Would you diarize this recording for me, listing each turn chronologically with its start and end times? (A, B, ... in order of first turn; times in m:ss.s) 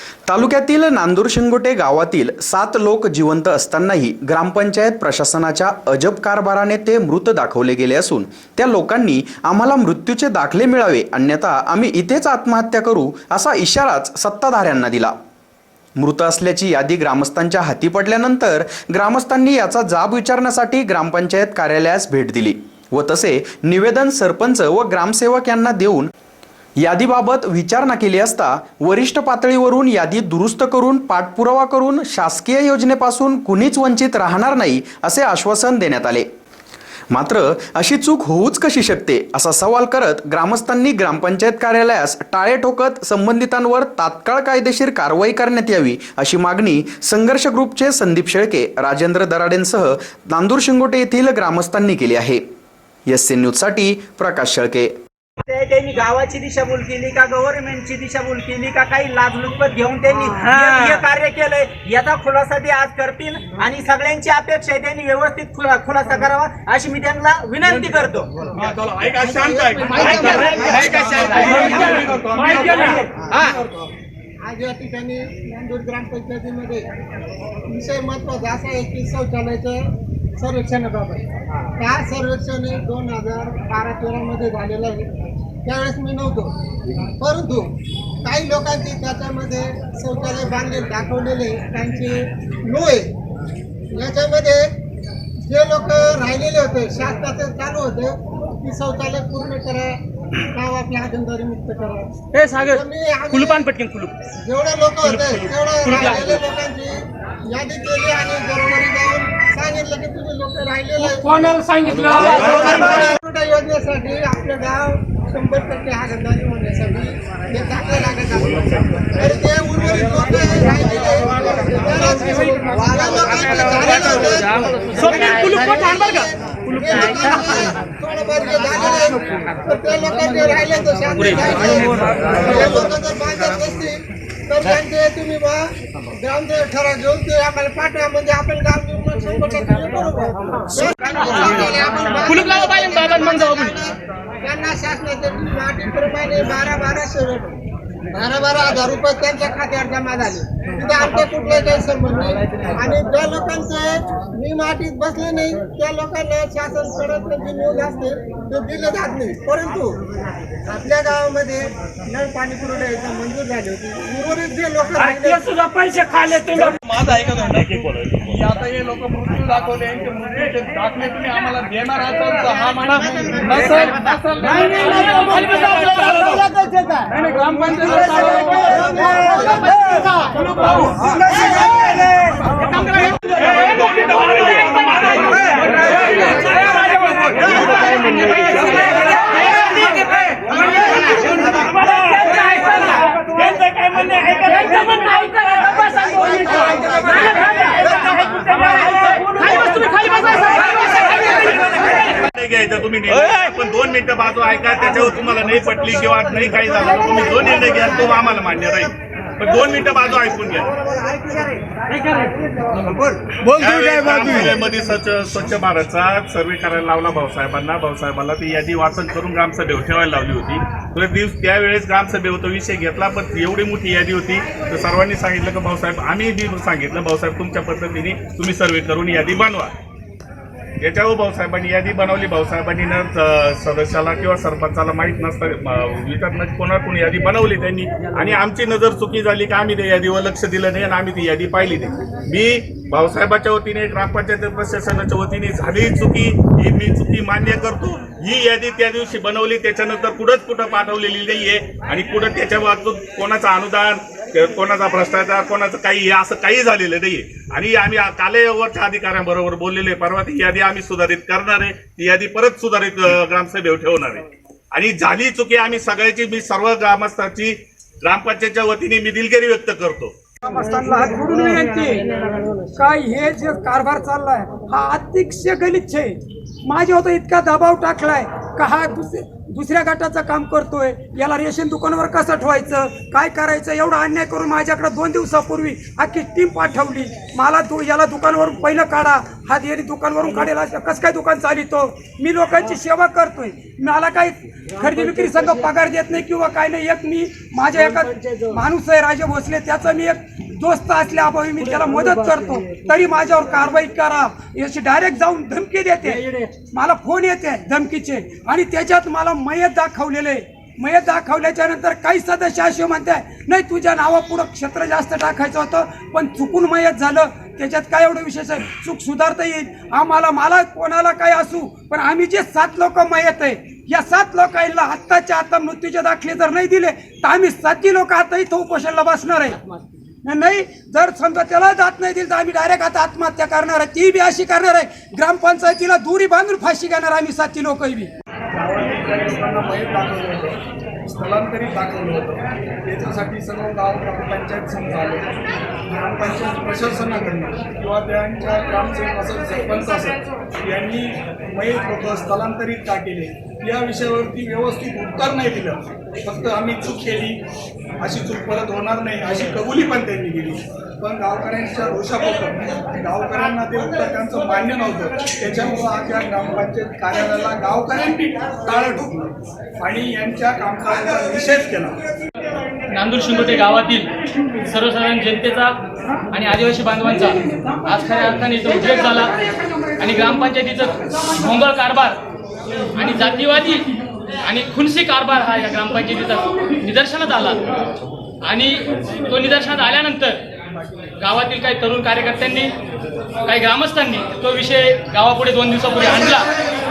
0:00.3-0:15.1 A
0:16.0-0:26.1 A
0:26.8-0:36.2 A
0:37.1-0:52.4 A
0:53.1-0:54.9 A
0:55.4-1:08.4 B
1:08.5-1:13.9 C
1:09.2-1:10.9 D
1:10.3-1:12.0 B
1:12.8-1:13.4 B
1:14.4-1:16.9 D
1:17.7-1:21.2 D
1:21.8-1:25.1 D
1:25.6-1:26.5 D
1:27.2-1:27.7 D
1:28.2-1:33.1 D
1:33.9-1:34.7 D
1:35.4-1:40.0 D
1:40.5-1:42.1 D
1:42.3-1:44.1 E
1:42.7-1:43.7 D
1:44.4-2:14.0 D
1:45.0-1:46.4 E
1:51.7-1:52.4 F
2:05.0-2:07.5 E
2:11.3-2:11.8 E
2:14.5-2:27.5 D
2:21.2-2:23.8 E
2:28.1-2:39.9 D
2:40.7-2:45.4 D
2:45.3-2:46.5 F
2:46.5-2:56.4 C
2:47.8-2:48.3 G
2:54.6-2:56.4 E
2:57.1-2:58.9 C
2:57.2-2:59.4 F
2:58.1-2:59.6 D
3:00.1-3:01.9 F
3:00.6-3:01.4 C
3:02.6-3:07.6 E
3:04.2-3:04.8 G
3:04.5-3:07.8 C
3:06.2-3:06.7 G
3:07.5-3:09.8 G
3:08.2-3:09.0 E
3:08.4-3:09.3 C
3:10.5-3:10.9 E
3:10.9-3:15.8 G
3:12.2-3:12.9 E
3:16.1-3:17.3 D
3:16.1-3:17.0 E
3:17.3-3:19.7 G
3:17.6-3:22.1 E
3:20.6-3:30.7 G
3:33.5-3:49.7 G
3:50.8-4:30.1 G
4:30.4-4:32.1 F
4:32.7-5:29.6 F
5:30.2-5:38.1 F
5:38.5-5:45.2 C
5:45.9-5:57.4 C
5:58.0-6:12.0 C
6:12.9-6:14.1 E
6:14.6-6:15.8 E
6:16.3-6:19.4 E
6:20.0-6:22.2 E
6:22.9-6:23.8 E
6:24.4-6:27.6 E
6:28.4-6:30.4 E
6:31.2-6:32.7 E
6:33.5-6:36.5 E